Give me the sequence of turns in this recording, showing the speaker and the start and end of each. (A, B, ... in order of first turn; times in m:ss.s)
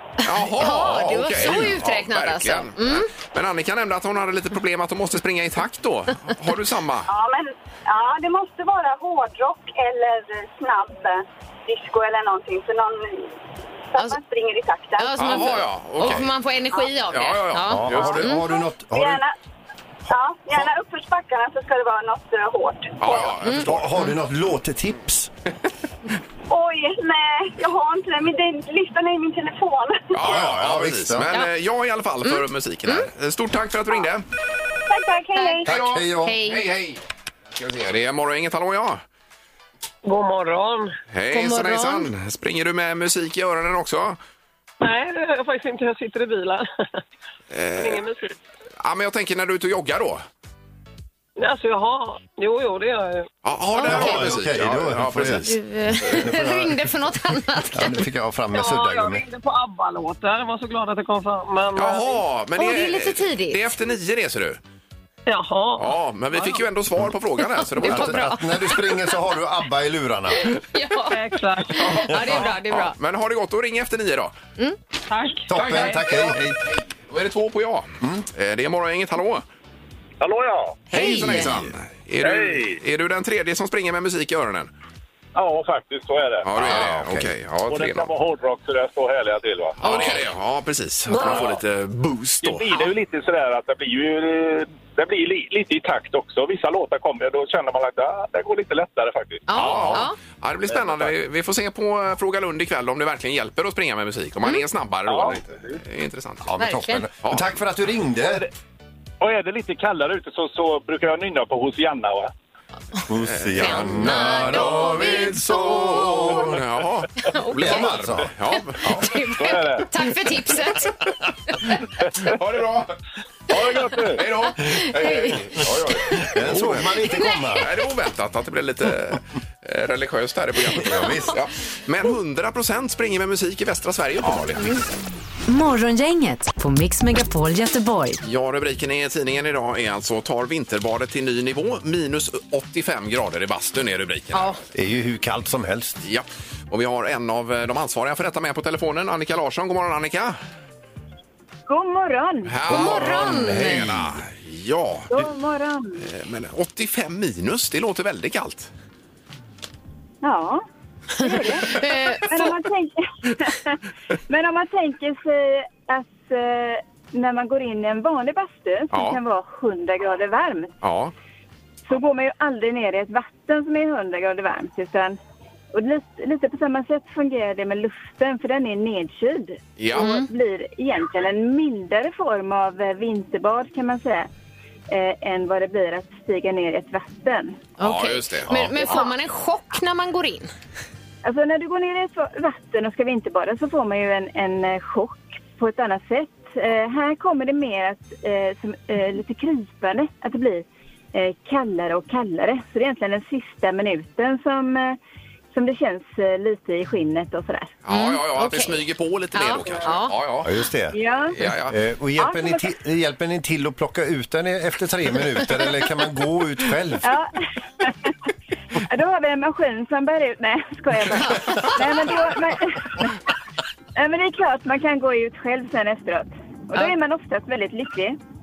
0:00.2-0:07.1 A
0:00.4-0:03.1 B
0:07.1-0:13.4 C
0:13.9-0:15.4 C
0:15.0-0:18.4 B
0:15.1-0:16.3 A
0:17.1-0:18.4 A
0:17.7-0:19.2 D
0:18.5-0:19.3 C
0:20.1-0:23.3 C
0:23.0-0:23.9 A
0:23.4-0:24.1 B
0:23.5-0:25.3 D
0:26.5-0:30.1 C
0:30.1-0:34.2 A
0:30.2-0:31.3 D
0:32.2-0:33.1 B
0:34.9-0:35.7 C
0:35.4-0:35.7 B
0:35.6-0:36.4 D
0:35.7-0:37.0 A
0:36.2-0:36.6 B
0:37.5-0:39.0 A
0:40.0-0:41.0 E
0:41.1-0:44.2 A
0:41.3-0:42.1 B
0:44.8-0:46.7 E
0:47.5-0:48.0 A
0:47.8-0:48.3 E
0:48.8-0:50.2 A
0:51.4-0:53.3 E
0:53.4-0:55.6 A
0:53.7-0:54.4 B
0:53.8-0:55.5 D
0:55.4-0:58.0 B
0:56.0-0:56.9 D
0:57.7-0:59.2 D
0:58.5-1:02.2 E
1:01.7-1:04.6 A
1:02.6-1:03.6 B
1:05.3-1:06.6 E
1:05.8-1:08.3 A
1:07.8-1:10.5 D
1:07.8-1:08.9 B
1:10.4-1:13.0 B
1:11.1-1:11.8 E
1:11.8-1:14.3 A
1:15.1-1:16.0 E
1:15.5-1:16.6 D
1:15.5-1:19.4 A
1:20.2-1:20.7 F
1:20.9-1:21.5 B
1:20.9-1:24.7 A
1:22.2-1:22.8 F
1:25.4-1:26.4 F
1:25.4-1:25.7 E
1:26.4-1:28.1 A
1:26.6-1:27.3 D
1:27.7-1:30.2 F
1:29.8-1:32.7 A
1:29.8-1:30.2 B
1:31.1-1:31.6 F
1:32.4-1:40.0 F
1:39.5-1:40.2 B
1:39.5-1:46.5 A
1:40.7-1:41.1 F
1:46.4-1:48.4 D
1:46.6-1:47.1 B
1:47.2-1:47.5 A
1:48.2-1:48.5 F
1:49.2-1:52.3 F
1:53.1-1:56.6 D
1:53.3-1:54.8 A
1:53.6-1:56.2 B
1:56.3-1:59.1 A
1:57.2-1:58.0 B
1:57.6-1:58.3 D
1:58.5-2:01.0 B
1:59.4-1:59.8 F
2:02.2-2:02.9 A
2:03.5-2:04.1 E
2:04.0-2:14.9 A
2:04.6-2:05.5 B
2:05.7-2:07.7 D
2:07.2-2:07.6 B
2:10.7-2:11.4 D
2:14.5-2:14.8 B
2:15.5-2:18.2 G
2:18.2-2:24.6 A
2:24.3-2:24.6 B
2:24.7-2:26.0 D
2:26.0-2:30.4 A
2:31.7-2:32.6 H
2:32.4-2:35.2 A
2:32.7-2:34.2 D
2:32.7-2:33.9 B
2:35.1-2:36.1 H
2:36.0-2:38.7 A
2:40.2-2:40.6 H
2:41.2-2:50.7 H
2:41.2-2:42.5 B
2:48.9-2:49.2 A
2:50.8-2:51.1 A
2:51.9-2:55.2 H
2:55.7-3:04.3 H
2:59.8-3:00.1 A
2:59.9-3:00.3 B
3:04.9-3:07.6 H
3:07.8-3:09.0 A
3:07.8-3:10.5 B
3:08.8-3:09.1 H
3:11.2-3:25.0 H
3:25.5-3:27.7 H
3:27.8-3:30.5 A
3:27.9-3:28.8 B
3:29.3-3:30.1 B
3:30.4-3:31.0 D
3:30.9-3:31.4 H
3:31.3-3:31.8 A
3:31.5-3:37.1 D
3:32.2-3:32.7 H
3:37.0-3:38.1 H
3:38.7-3:43.1 H
3:41.2-3:41.7 B
3:44.0-3:48.2 H